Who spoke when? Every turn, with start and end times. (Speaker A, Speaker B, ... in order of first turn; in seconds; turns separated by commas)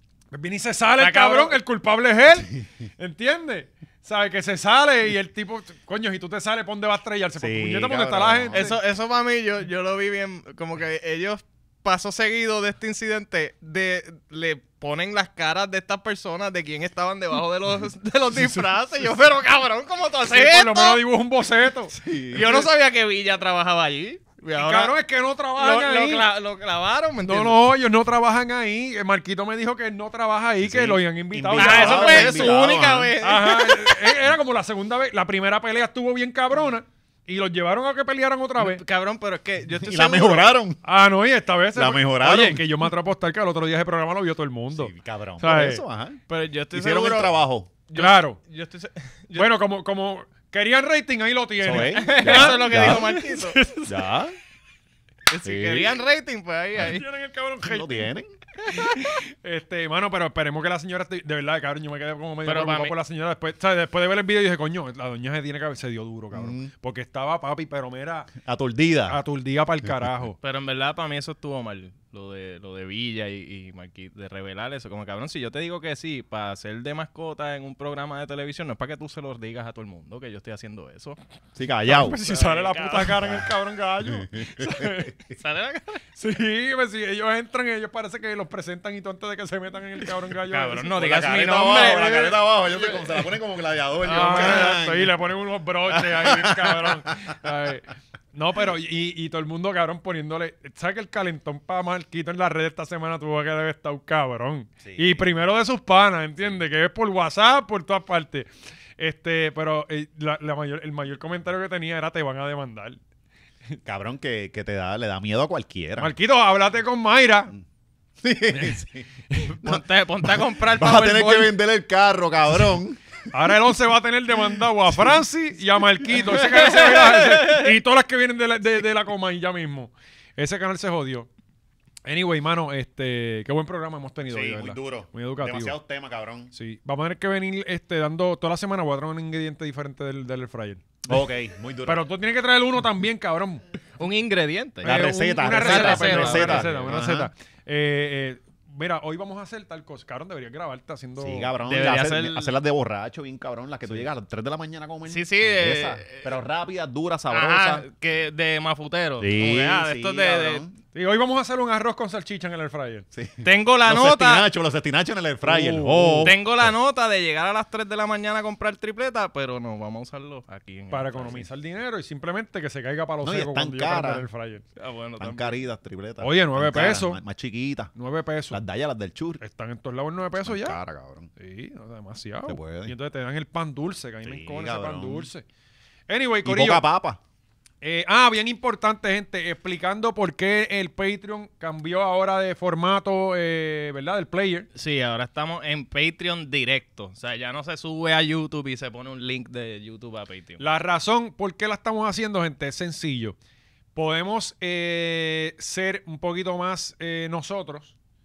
Speaker A: 0.3-8.8, Speaker B: 1.0-1.6, Speaker C: 7.4-8.7, Speaker B: 8.5-21.0, Speaker A: 20.3-22.6, Speaker C: 21.9-22.6, Speaker B: 22.3-24.9, Speaker A: 24.6-26.3, Speaker B: 25.6-27.6, Speaker A: 27.2-32.5, Speaker C: 30.6-33.1, Speaker B: 31.6-34.2, Speaker A: 33.2-38.8, Speaker B: 38.6-40.5, Speaker C: 39.8-40.8, Speaker A: 40.8-45.8, Speaker C: 41.7-42.7, Speaker C: 44.7-46.2, Speaker B: 46.3-47.3, Speaker C: 46.7-47.7, Speaker B: 47.9-49.6, Speaker A: 47.9-48.4, Speaker A: 49.4-54.0, Speaker C: 51.6-53.1, Speaker B: 51.7-53.6, Speaker C: 53.8-54.3, Speaker B: 55.3-57.0, Speaker C: 55.4-56.0, Speaker A: 56.8-58.1, Speaker C: 57.6-58.3, Speaker A: 58.7-68.3, Speaker B: 62.5-62.9, Speaker C: 66.3-66.7, Speaker C: 68.4-69.2, Speaker A: 69.1-70.4, Speaker B: 70.4-81.2, Speaker C: 81.5-82.2, Speaker A: 81.9-85.1, Speaker B: 82.2-83.2, Speaker C: 83.2-83.5, Speaker C: 84.0-85.3, Speaker B: 85.3-86.0, Speaker A: 86.2-90.9, Speaker B: 90.5-93.3, Speaker C: 90.9-95.1, Speaker B: 94.0-95.0, Speaker A: 94.0-113.0, Speaker B: 95.9-96.6, Speaker C: 96.7-97.3, Speaker C: 104.8-105.2, Speaker C: 113.8-116.1, Speaker A: 116.0-117.5, Speaker C: 118.2-119.1, Speaker A: 118.5-118.8, Speaker A: 119.3-119.6, Speaker B: 119.6-121.5, Speaker C: 120.7-123.0, Speaker A: 123.3-131.3, Speaker B: 126.1-127.7, Speaker A: 132.0-135.8, Speaker C: 134.3-136.5, Speaker A: 136.5-141.0, Speaker C: 141.1-142.0, Speaker A: 141.8-143.6, Speaker B: 144.0-144.9, Speaker C: 144.8-147.3, Speaker A: 144.8-151.5, Speaker B: 145.5-147.0, Speaker C: 151.2-157.8, Speaker B: 151.6-152.6, Speaker B: 155.1-156.4, Speaker B: 157.3-160.6, Speaker C: 159.2-160.7, Speaker A: 160.9-163.1, Speaker C: 163.1-166.7, Speaker B: 163.4-164.5, Speaker A: 165.4-166.3, Speaker B: 166.2-171.4, Speaker A: 170.9-174.6, Speaker C: 173.2-174.2, Speaker B: 174.8-175.6, Speaker C: 175.2-177.9, Speaker A: 176.2-177.2, Speaker A: 177.9-178.6, Speaker C: 178.5-179.4, Speaker A: 179.4-180.8, Speaker C: 180.4-181.3, Speaker A: 181.4-185.4, Speaker C: 182.5-182.9, Speaker C: 184.2-185.3, Speaker A: 186.1-186.9, Speaker C: 186.4-187.2, Speaker A: 187.8-194.7, Speaker B: 194.7-200.6, Speaker A: 200.6-203.3, Speaker A: 203.9-207.9